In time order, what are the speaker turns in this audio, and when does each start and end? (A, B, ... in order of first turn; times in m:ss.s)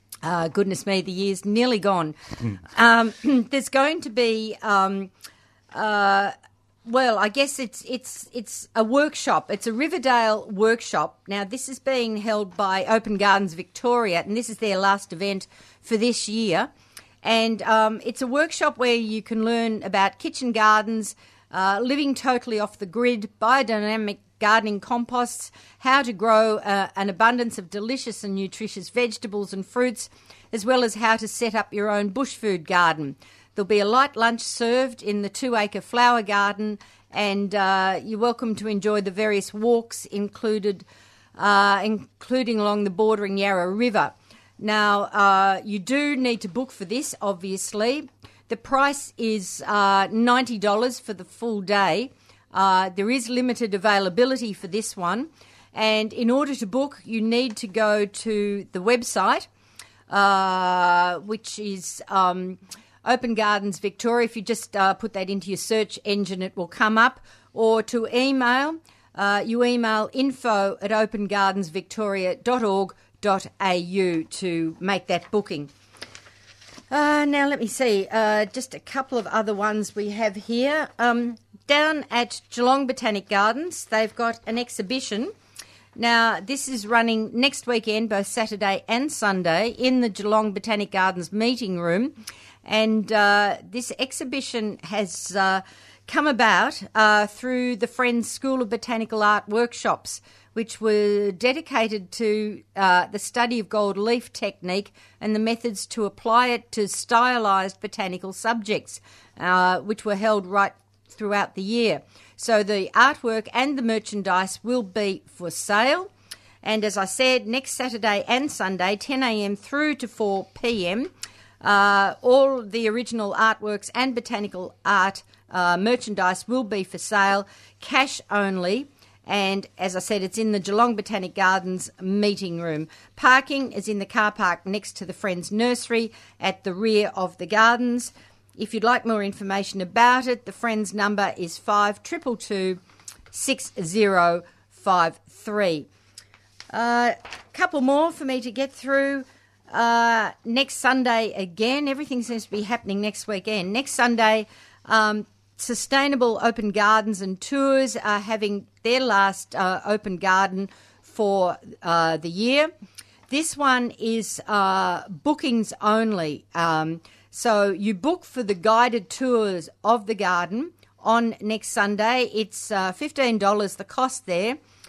0:00.2-0:05.1 A
0:05.7-0:06.3 A
0:06.8-0:16.7 A
0:17.2-0:59.5 A
1:00.1-1:15.7 A
1:16.9-1:25.3 A
1:26.0-1:56.1 A
1:56.6-2:01.1 A
2:01.6-2:22.8 A
2:23.3-2:25.9 A
2:26.7-2:42.7 A
2:43.3-2:54.6 A